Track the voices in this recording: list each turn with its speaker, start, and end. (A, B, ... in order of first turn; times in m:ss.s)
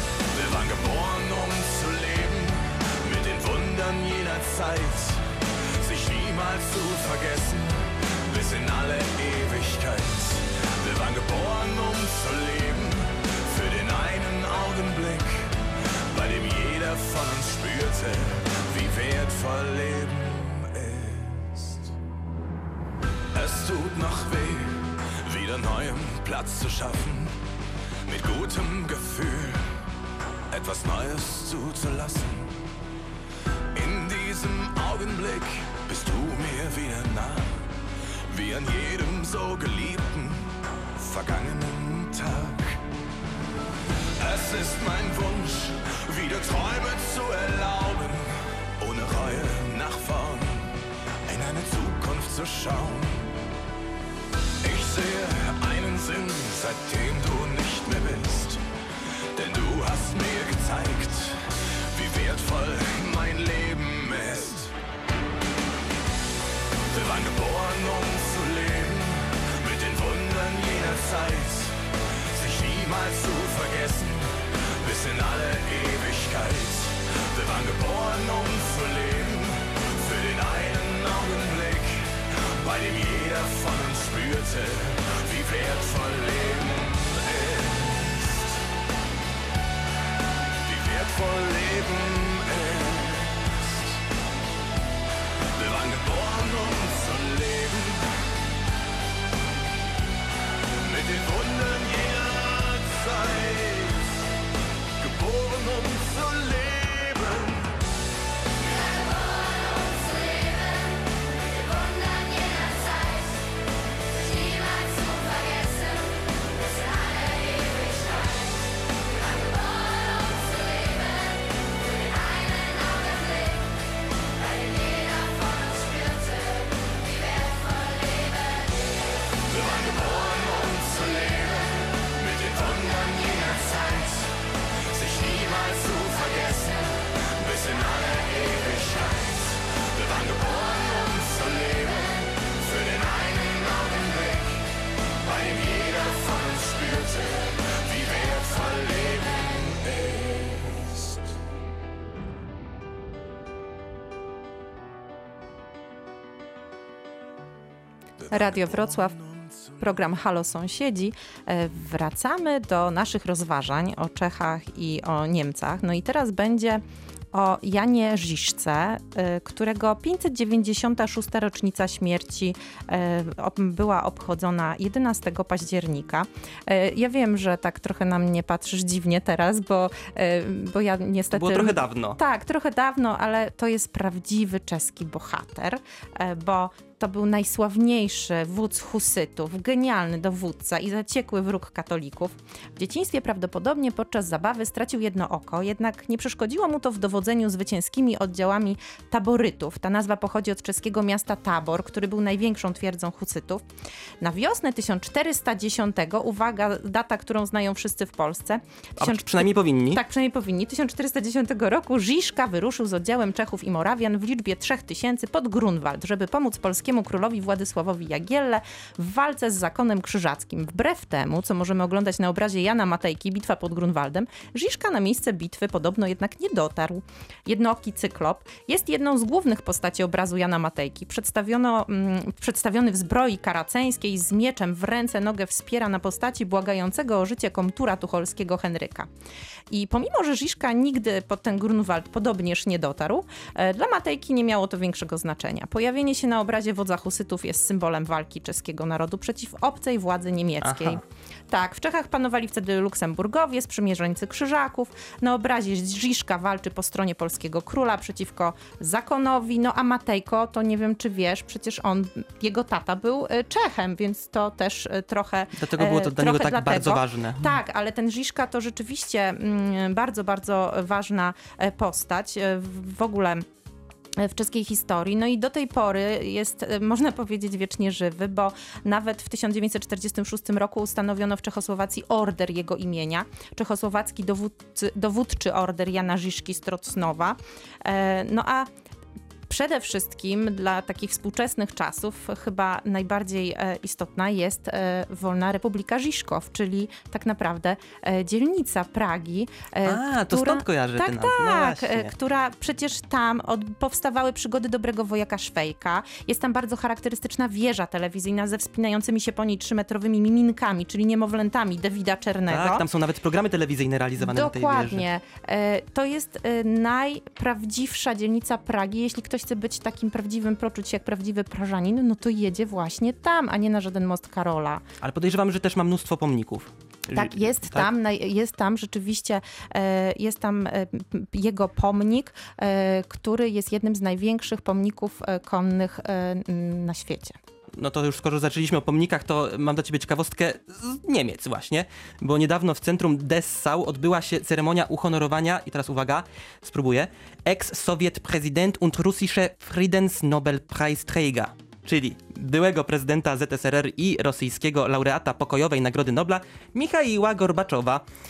0:00.3-0:21.9 A
0:23.3-0:27.4 A
0:28.1-0:29.7 A
0:30.5-0:32.5 A
0:33.7-0:37.6 A
0:38.3-0:42.8 A
0:44.2-0:53.3 A
0:54.6-0:58.6 A
0:59.3-1:04.7 A
1:06.9-1:11.8 A
1:12.3-1:28.6 A
1:30.6-1:34.0 A
1:35.5-1:38.1 A
1:40.8-1:44.2 A
1:45.0-1:47.7 A
2:09.4-2:14.3 A
2:14.9-2:24.6 A
2:25.2-2:31.4 A
2:38.2-2:40.2 A
2:38.3-2:39.1 B
2:39.8-3:23.6 B
3:01.3-3:02.2 C
3:24.2-3:59.1 B
3:29.0-3:30.0 C
3:59.7-4:33.4 B
4:10.6-4:11.0 C
4:25.5-4:27.6 C
4:34.2-4:48.7 B
4:49.5-5:12.8 B
4:59.8-5:02.1 C
5:12.5-5:15.0 C
5:14.2-5:24.8 B
5:25.0-5:27.9 C
5:27.1-5:37.4 B
5:37.8-5:58.0 C